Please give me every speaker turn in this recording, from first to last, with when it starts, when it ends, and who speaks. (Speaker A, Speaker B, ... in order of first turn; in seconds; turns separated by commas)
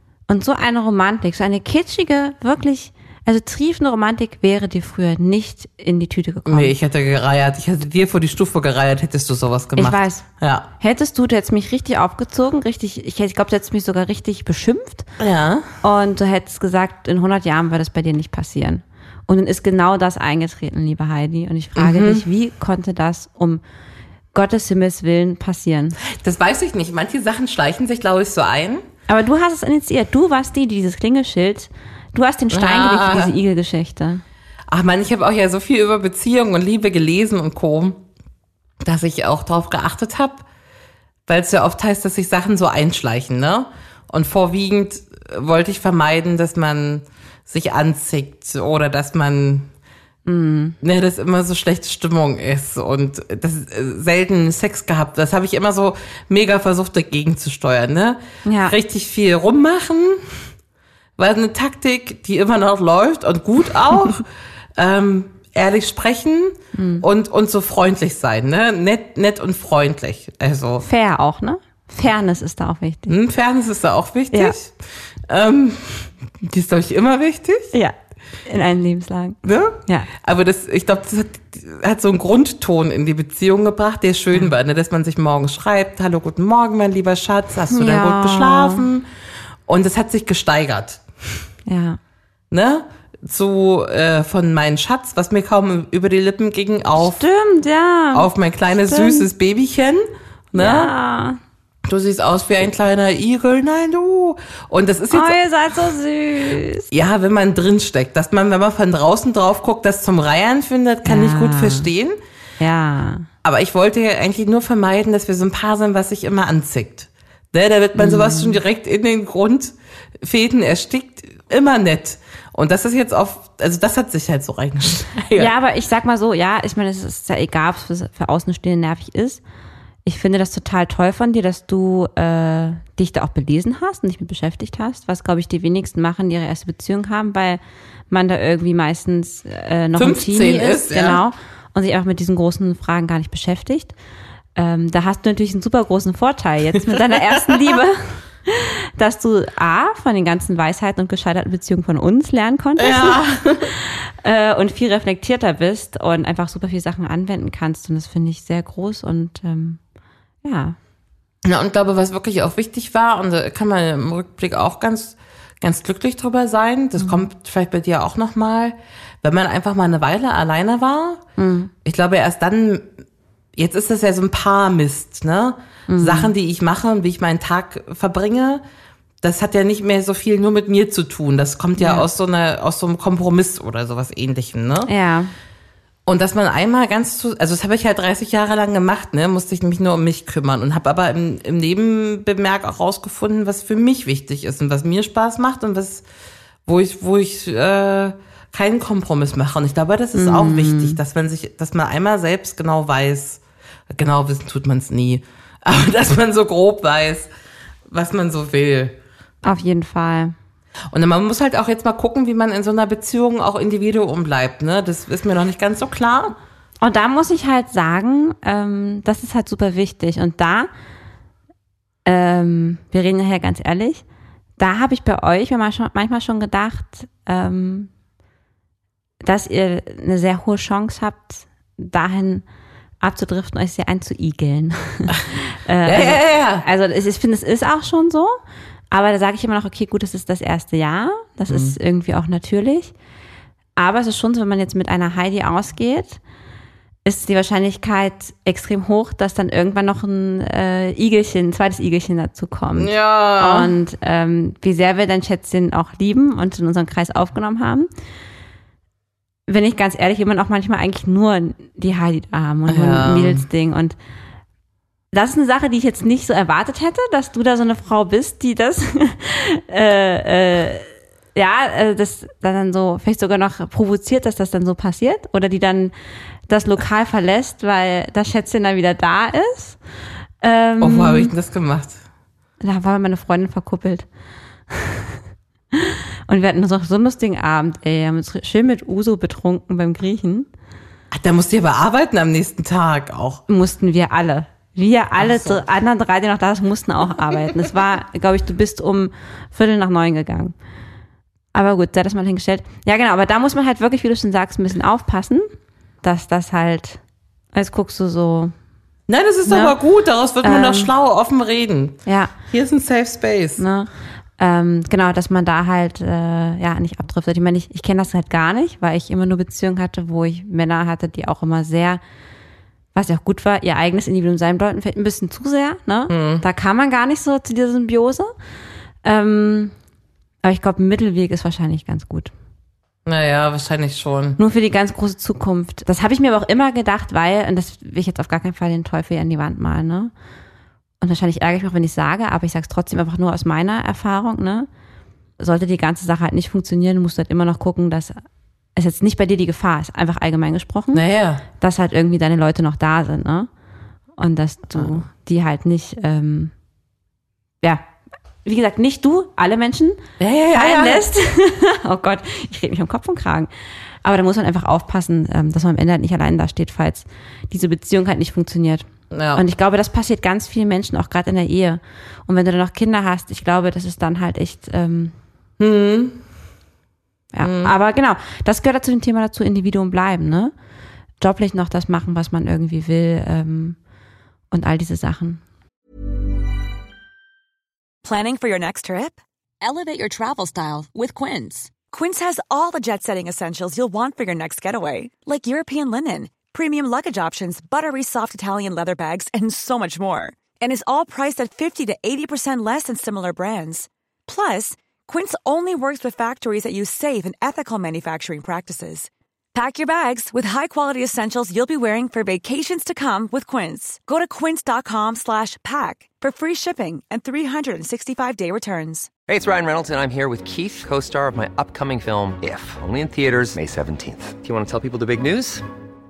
Speaker A: 0.3-6.7, Speaker B: 6.5-10.7, Speaker A: 9.8-10.2, Speaker A: 10.8-15.1, Speaker B: 15.2-15.7, Speaker A: 15.8-23.6, Speaker B: 21.8-22.2, Speaker A: 24.3-26.0, Speaker B: 26.0-28.8, Speaker A: 29.1-34.2, Speaker B: 32.5-33.3, Speaker B: 34.7-38.0, Speaker B: 38.8-40.4, Speaker B: 41.3-49.7, Speaker A: 50.2-50.8, Speaker B: 50.8-60.2, Speaker A: 58.4-58.8, Speaker B: 61.2-70.8, Speaker A: 66.7-67.0, Speaker A: 70.8-73.1, Speaker B: 73.1-74.7, Speaker B: 75.3-77.7, Speaker A: 78.5-80.1, Speaker B: 79.4-89.1, Speaker A: 87.7-88.8, Speaker B: 89.7-91.0, Speaker A: 91.7-92.0, Speaker B: 92.5-97.2, Speaker A: 97.0-98.3, Speaker B: 98.1-100.9, Speaker A: 98.8-99.3, Speaker A: 100.5-101.4, Speaker B: 101.8-105.4, Speaker A: 105.1-106.9, Speaker B: 106.9-112.2, Speaker A: 111.0-111.9, Speaker A: 112.6-113.3, Speaker B: 113.4-125.5, Speaker A: 118.0-118.6, Speaker A: 125.3-129.4, Speaker A: 130.0-137.6, Speaker A: 138.1-143.9, Speaker B: 139.9-141.2, Speaker A: 144.6-159.8, Speaker B: 146.9-147.8, Speaker B: 152.8-153.7, Speaker A: 160.4-160.8, Speaker B: 161.4-171.2, Speaker A: 167.0-167.2, Speaker A: 171.4-171.7, Speaker B: 171.8-172.9, Speaker B: 173.5-178.6, Speaker A: 175.9-176.3, Speaker B: 179.2-184.9, Speaker A: 181.8-182.1, Speaker A: 184.8-185.3, Speaker B: 186.1-196.0, Speaker B: 196.7-207.3, Speaker A: 200.1-201.0, Speaker B: 207.9-209.0, Speaker A: 209.4-210.3, Speaker B: 210.9-216.3, Speaker A: 216.8-220.7, Speaker A: 222.1-224.0, Speaker A: 224.6-227.9, Speaker A: 229.2-232.4, Speaker A: 233.0-238.4, Speaker B: 235.8-236.6, Speaker A: 238.9-242.9, Speaker B: 241.5-241.8, Speaker A: 243.8-246.2, Speaker A: 247.0-257.9, Speaker B: 252.8-253.7, Speaker A: 259.5-263.9, Speaker B: 262.7-263.4, Speaker A: 265.1-275.9, Speaker A: 276.5-279.8, Speaker A: 280.4-281.3, Speaker B: 280.8-282.0, Speaker A: 282.6-284.1, Speaker A: 284.7-285.2, Speaker A: 285.7-290.5, Speaker B: 291.1-293.4, Speaker A: 293.5-300.5, Speaker B: 295.2-295.6, Speaker A: 301.5-305.5, Speaker A: 306.0-307.0, Speaker A: 307.5-308.5, Speaker B: 309.1-313.6, Speaker A: 309.4-309.8, Speaker A: 310.4-310.9, Speaker A: 312.1-312.3, Speaker A: 313.6-322.0, Speaker A: 322.9-328.3, Speaker B: 326.1-326.4, Speaker A: 329.0-329.7, Speaker A: 330.4-332.3, Speaker B: 333.1-334.4, Speaker A: 334.4-340.1, Speaker A: 341.0-344.7, Speaker A: 345.4-348.2, Speaker A: 348.8-351.0, Speaker B: 350.9-351.4, Speaker A: 351.6-353.5, Speaker A: 354.2-356.5, Speaker A: 358.4-360.0, Speaker B: 360.2-361.1, Speaker A: 360.5-363.5, Speaker A: 364.0-375.1, Speaker B: 369.1-369.4, Speaker B: 375.6-376.2, Speaker A: 377.3-380.5, Speaker B: 377.4-377.7, Speaker A: 381.2-383.8, Speaker A: 384.5-385.4, Speaker C: 388.0-419.1, Speaker D: 419.3-425.6